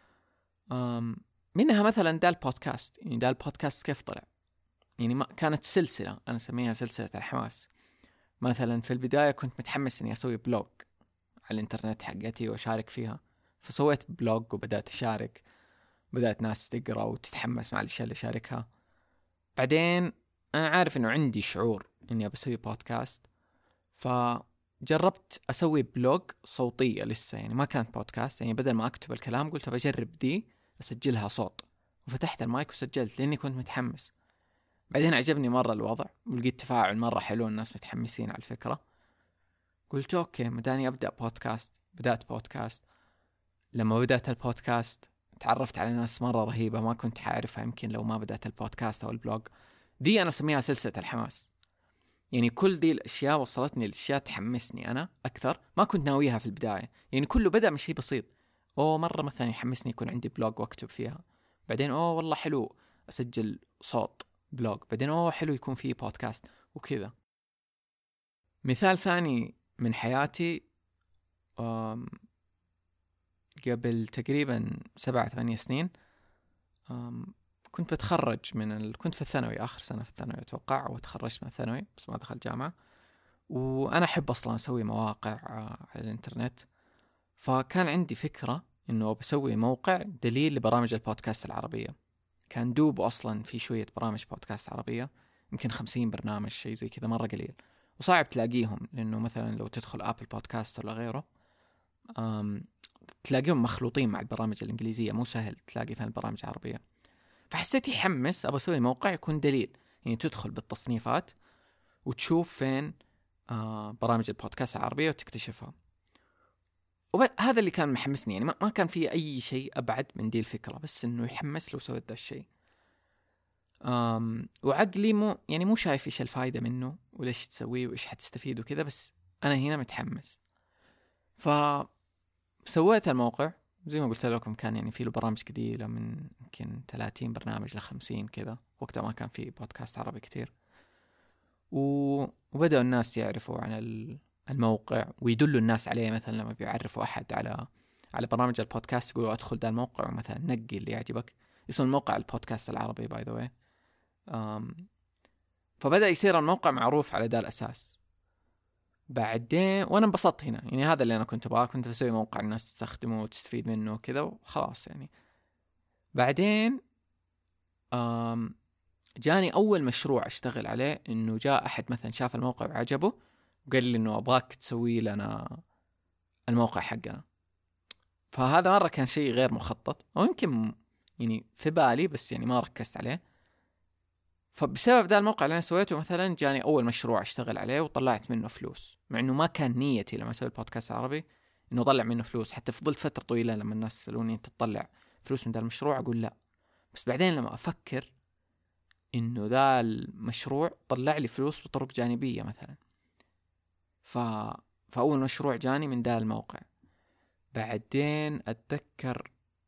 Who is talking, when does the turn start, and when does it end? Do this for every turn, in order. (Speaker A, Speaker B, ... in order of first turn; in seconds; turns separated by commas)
Speaker A: 0.7-4.2, Speaker A: 5.0-7.7, Speaker A: 8.4-10.9, Speaker A: 11.4-15.4, Speaker A: 16.1-18.6, Speaker A: 19.6-23.2, Speaker A: 24.0-34.1, Speaker A: 34.9-38.8, Speaker A: 39.9-42.8, Speaker A: 43.7-49.5, Speaker A: 50.0-51.5, Speaker A: 52.3-67.1, Speaker A: 68.6-70.6, Speaker A: 71.6-72.2, Speaker A: 73.6-75.9, Speaker A: 76.9-82.7, Speaker A: 83.5-86.7, Speaker A: 87.4-91.9, Speaker A: 92.5-101.2, Speaker A: 102.1-102.7, Speaker A: 103.2-106.8, Speaker A: 107.5-111.3, Speaker A: 112.0-112.9, Speaker A: 113.5-115.7, Speaker A: 117.1-122.5, Speaker A: 123.8-130.4, Speaker A: 131.4-131.9, Speaker A: 132.6-140.5, Speaker A: 141.7-153.5, Speaker A: 154.3-154.9, Speaker A: 155.8-158.0, Speaker A: 159.1-165.1, Speaker A: 166.2-166.8, Speaker A: 167.9-168.5, Speaker A: 169.2-173.1, Speaker A: 173.7-175.6, Speaker A: 176.5-177.2, Speaker A: 178.3-183.2, Speaker A: 184.5-196.3, Speaker A: 196.9-198.1, Speaker A: 199.1-202.8, Speaker A: 204.0-206.6, Speaker A: 207.5-209.3